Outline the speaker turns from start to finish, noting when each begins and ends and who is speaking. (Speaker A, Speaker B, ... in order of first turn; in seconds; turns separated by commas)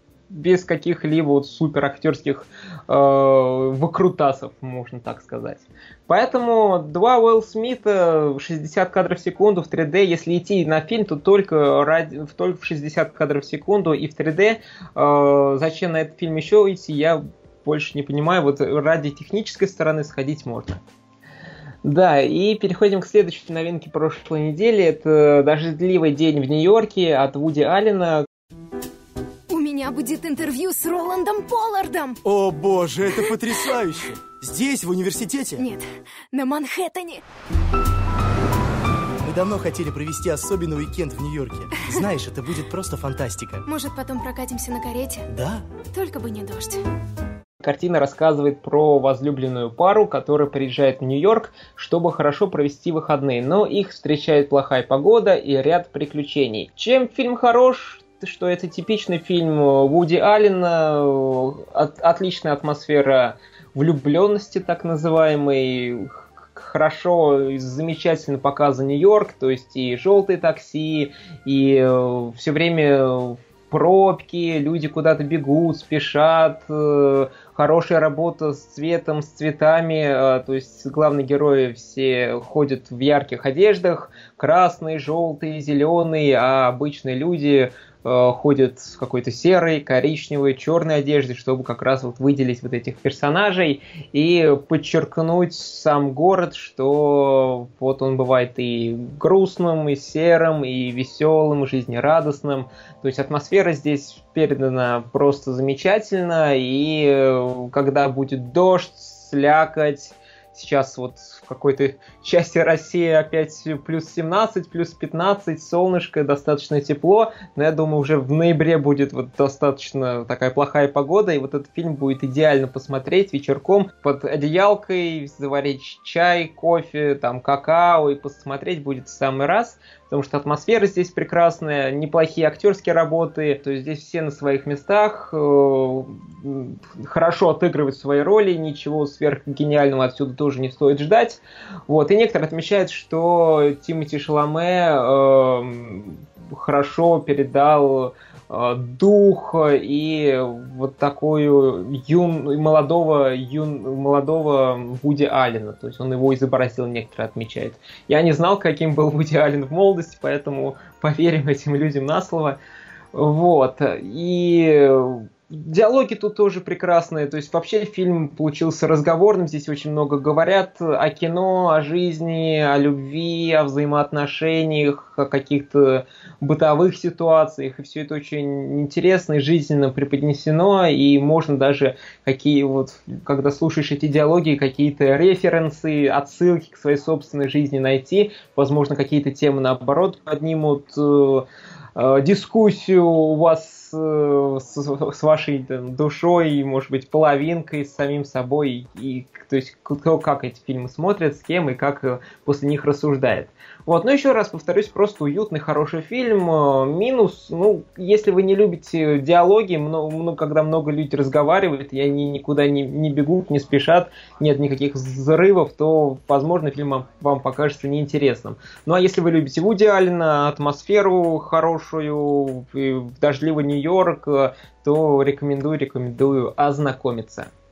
Speaker A: 0.3-20.8, Speaker A: 21.8-28.2, Speaker B: 29.5-32.2, Speaker C: 32.2-35.6, Speaker B: 35.6-37.2, Speaker C: 39.2-43.6, Speaker B: 43.6-45.2, Speaker C: 45.3-45.6, Speaker B: 45.9-46.8, Speaker A: 47.6-162.6, Speaker A: 163.1-227.5